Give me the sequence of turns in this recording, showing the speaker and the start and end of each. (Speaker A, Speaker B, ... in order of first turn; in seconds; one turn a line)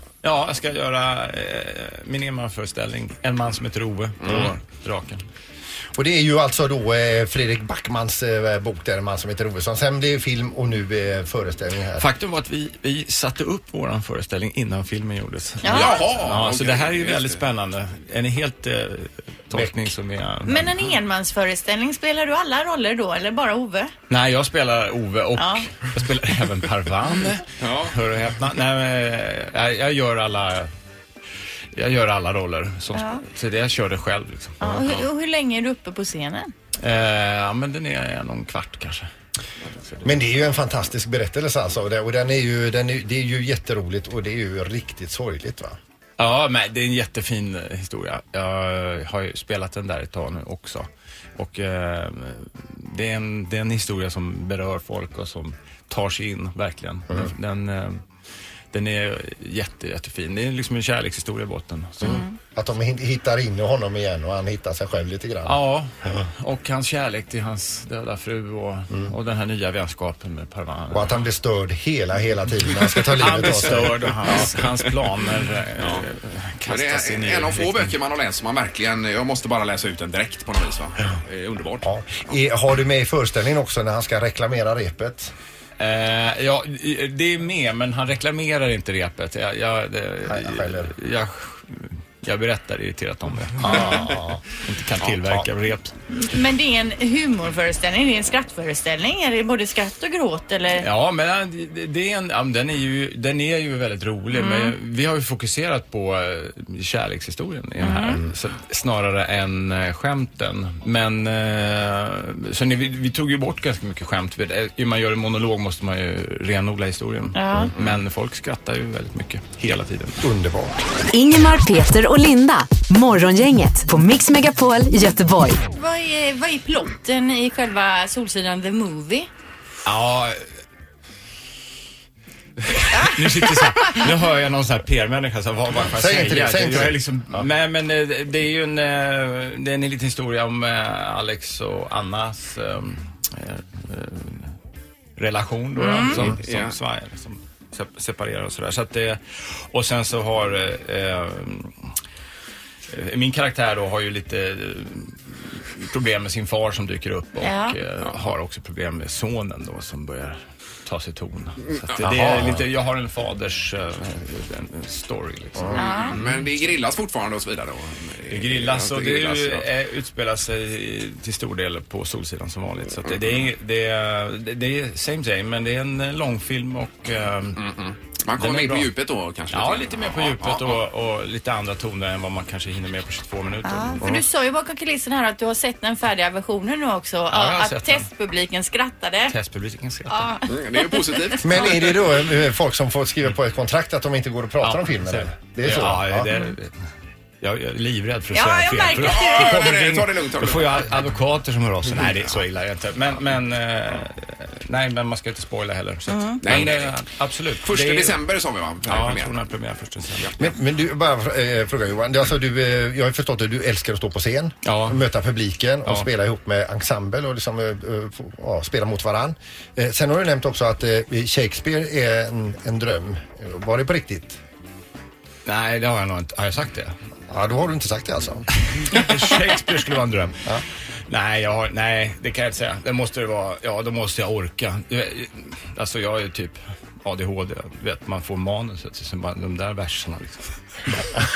Speaker A: 0.2-5.2
Speaker B: 4.2-4.5
Speaker C: 6.0-12.0
Speaker A: 12.0-20.7
Speaker D: 15.6-16.0
Speaker B: 15.6-17.4
Speaker D: 20.4-23.9
Speaker A: 24.1-30.7
Speaker D: 25.3-25.7
Speaker B: 27.6-27.9
Speaker A: 31.7-34.8
Speaker D: 32.9-33.2
Speaker D: 34.6-36.5
Speaker A: 36.8-39.1
Speaker C: 40.0-45.8
Speaker A: 46.2-58.0
Speaker A: 58.7-62.2
Speaker D: 62.0-62.3
Speaker C: 62.5-66.2
Speaker A: 65.5-71.2
Speaker C: 70.9-74.4
Speaker A: 73.2-78.0
Speaker B: 74.2-74.5
Speaker B: 75.8-76.0
Speaker B: 76.7-82.3
Speaker C: 81.8-85.3
Speaker A: 85.8-93.9
Speaker C: 90.2-90.9
Speaker C: 93.6-94.4
Speaker B: 93.8-94.0
Speaker A: 94.6-95.9
Speaker C: 95.0-95.4
Speaker D: 96.1-100.9
Speaker A: 100.8-120.2
Speaker D: 104.3-104.7
Speaker D: 107.8-108.2
Speaker D: 117.3-117.7
Speaker C: 120.2-120.8
Speaker E: 121.1-125.6
Speaker D: 125.7-129.3
Speaker A: 129.8-130.4
Speaker D: 132.9-133.9
Speaker A: 132.9-144.5
Speaker C: 135.9-137.4
Speaker A: 145.2-151.7
Speaker D: 145.8-146.2
Speaker B: 146.2-146.8
Speaker A: 152.9-166.5
Speaker D: 157.4-157.8
Speaker B: 161.6-162.2
Speaker C: 162.0-162.6
Speaker D: 165.7-166.2
Speaker B: 166.1-169.7
Speaker A: 168.3-177.6
Speaker B: 173.0-173.4
Speaker B: 177.6-180.8
Speaker A: 178.4-178.9
Speaker A: 179.5-184.1
Speaker D: 183.6-189.3
Speaker A: 187.3-188.1
Speaker A: 189.3-190.4
Speaker D: 190.1-191.7
Speaker B: 190.4-191.8
Speaker C: 191.4-196.3
Speaker A: 194.6-196.7
Speaker A: 197.4-208.2
Speaker D: 198.3-199.6
Speaker B: 198.8-201.0
Speaker B: 201.9-202.4
Speaker D: 206.1-206.4
Speaker B: 206.4-209.4
Speaker A: 208.8-210.3
Speaker B: 210.2-210.4
Speaker C: 210.4-224.4
Speaker A: 214.6-215.1
Speaker A: 225.4-226.9
Speaker C: 227.3-228.4
Speaker A: 228.7-230.3
Speaker A: 231.1-240.5